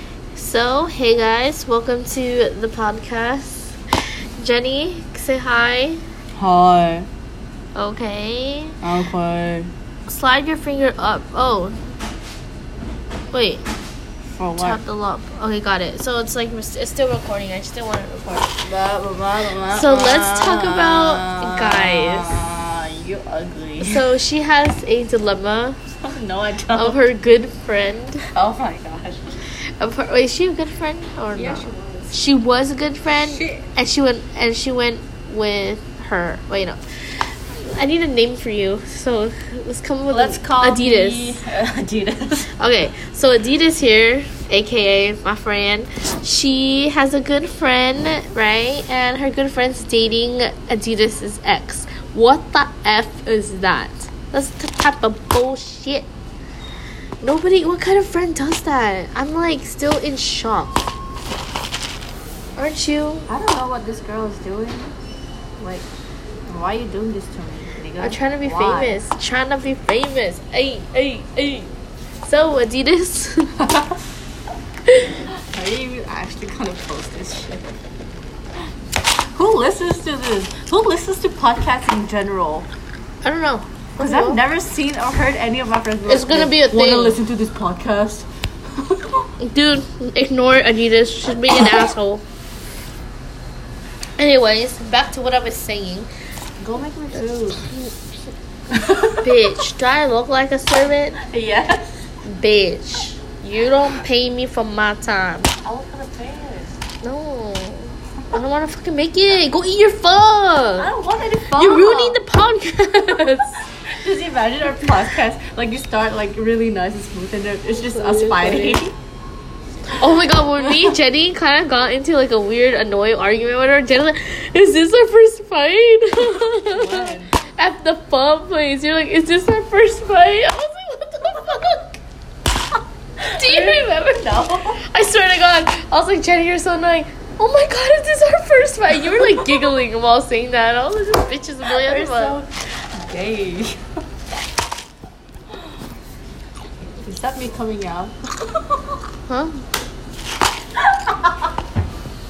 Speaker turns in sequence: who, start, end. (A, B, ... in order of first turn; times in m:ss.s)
0:00.3-0:03.8 A
0:04.4-0:06.0 A
0:06.4-0:07.1 B
0:07.7-0:08.8 A
0:08.8-0:09.7 B
0:10.1-0:11.8 A
0:13.3-0:13.6 A
0:14.3-0:14.8 B
0:14.6-0:18.6 A
0:18.6-0:24.1 B
0:19.7-0:22.4 A
0:23.8-0:25.8 A
0:26.0-0:27.0 B
0:26.7-0:28.2 A
0:28.3-0:29.3 B
0:29.8-0:36.8 A
0:31.3-0:32.2 B
0:33.1-0:33.7 B
0:37.5-0:41.4 A
0:40.1-0:42.5 B
0:42.6-0:56.1 A
0:57.2-1:00.9 A
1:02.6-1:03.3 A
1:03.3-1:05.0 B
1:05.6-1:05.9 B
1:06.5-1:09.0 B
1:08.0-1:13.6 A
1:13.6-1:14.0 B
1:15.1-1:17.8 B
1:19.3-1:22.7 B
1:23.2-1:24.4 A
1:24.0-1:29.3 B
1:26.0-1:27.2 A
1:29.4-1:32.2 A
1:31.6-1:31.9 B
1:34.2-1:36.1 A
1:36.6-1:37.8 B
1:38.7-1:39.6 B
1:39.2-1:41.2 A
1:41.2-1:42.0 B
1:42.2-1:45.5 A
1:45.6-1:46.8 B
1:47.0-1:50.9 A
1:50.8-1:52.2 B
1:51.5-1:53.7 A
1:53.8-1:58.9 B
1:57.7-1:58.8 A
1:59.9-2:12.0 A
2:06.5-2:07.3 B
2:13.2-2:14.8 B
2:13.2-2:22.4 A
2:21.6-2:23.8 B
2:27.0-2:28.8 B
2:29.3-2:29.6 A